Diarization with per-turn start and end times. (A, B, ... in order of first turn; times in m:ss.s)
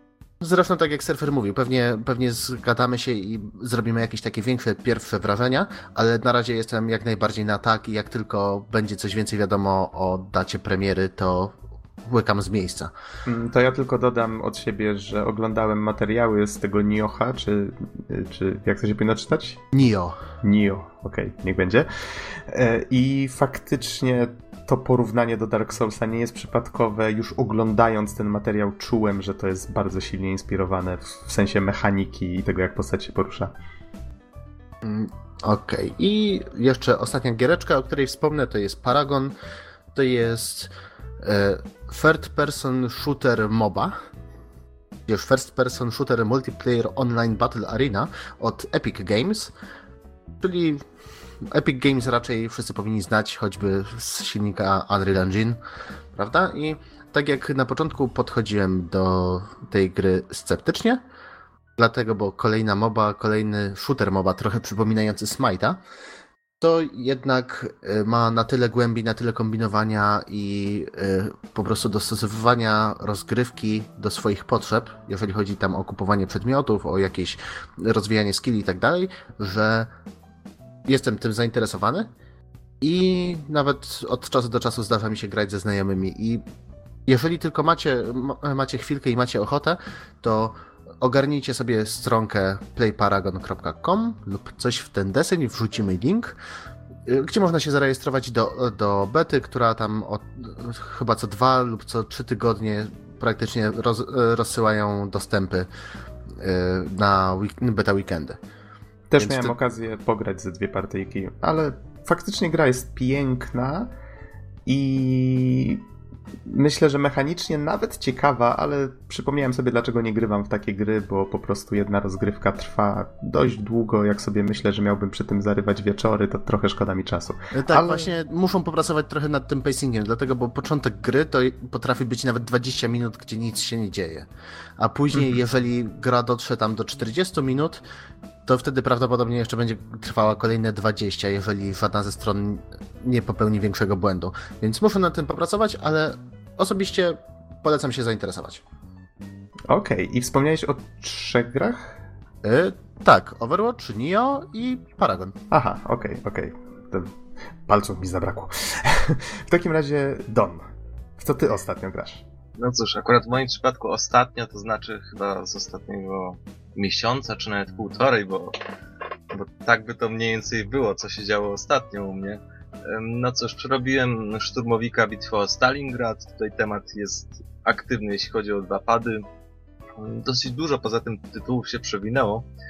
0:00.4-0:12.9 A
0:13.2-0:19.6 B
0:19.7-0:20.2 A
0:20.4-0:33.5 B
0:34.8-0:39.3 A
0:39.9-0:43.9 A
0:45.1-0:49.5 A
0:50.4-0:50.8 A
0:51.4-0:55.6 A
0:56.1-1:01.0 A
1:01.8-1:05.8 A
1:06.6-1:19.9 A
1:20.8-1:22.1 A
1:22.8-1:26.4 A
1:27.0-1:36.4 A
1:37.0-1:45.7 A
1:46.4-1:48.4 A
1:49.1-1:53.9 B
1:49.2-1:49.5 A
1:54.6-1:55.8 B
1:56.5-2:08.1 B
2:07.5-2:17.8 A
2:15.1-2:15.4 B
2:18.4-2:28.6 A
2:29.7-2:32.0 B
2:32.4-2:35.4 A
2:35.5-2:37.1 B
2:37.6-2:40.6 B
2:41.2-2:42.2 B
2:42.6-2:48.5 C
2:49.3-2:59.2 C
3:00.0-3:02.5 C